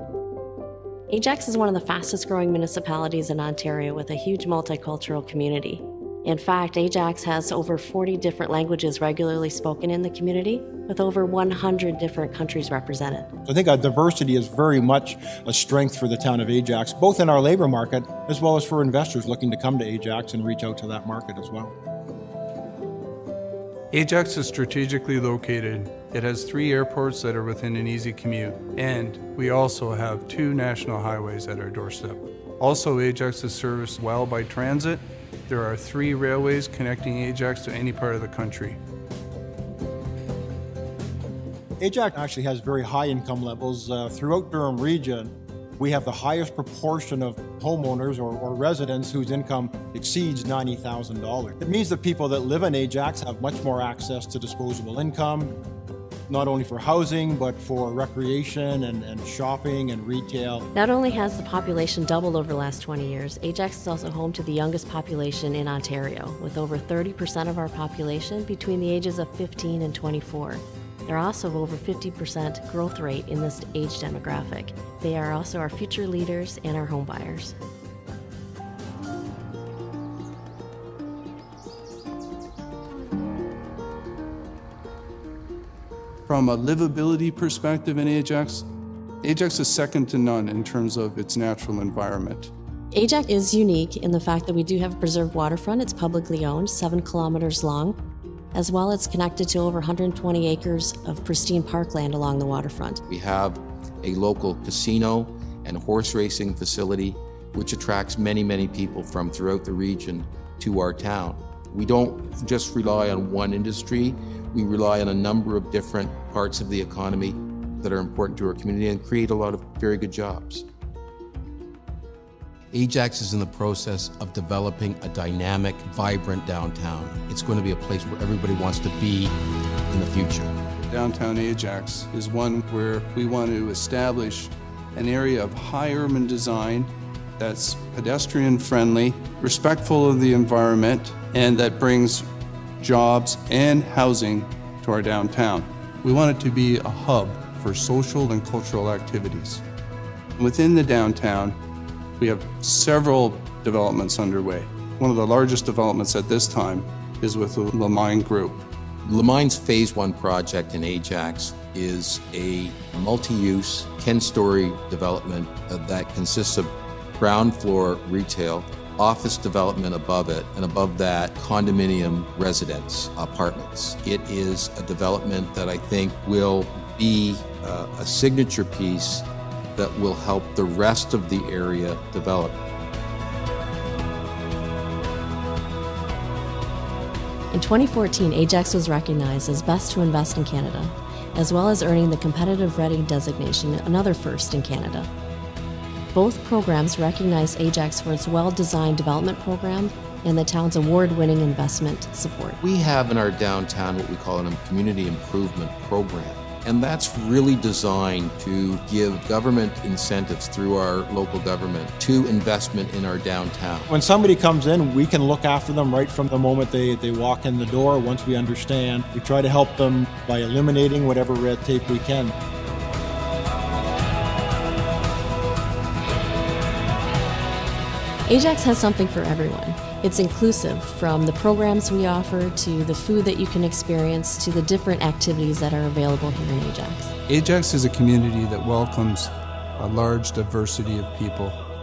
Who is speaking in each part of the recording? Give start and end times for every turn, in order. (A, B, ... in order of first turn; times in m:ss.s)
0:01.1-0:13.3 A
0:13.5-0:21.7 B
0:23.9-0:38.8 C
0:41.8-0:55.6 B
0:56.3-1:00.6 B
1:00.7-1:17.6 A
1:26.3-1:28.7 C
1:29.2-1:32.5 C
1:32.9-1:38.0 A
1:38.5-1:43.0 A
1:43.1-2:00.7 D
2:02.7-2:09.4 D
2:09.9-2:10.5 D
2:10.9-2:22.3 C
2:22.8-2:29.6 C
2:30.4-2:31.6 C
2:32.2-2:38.7 C
2:39.0-3:02.6 D
3:07.5-3:15.1 A
3:16.1-3:22.6 A
3:22.6-3:33.9 D
3:33.9-3:42.3 B
3:48.3-3:57.1 A
3:57.3-4:01.6 C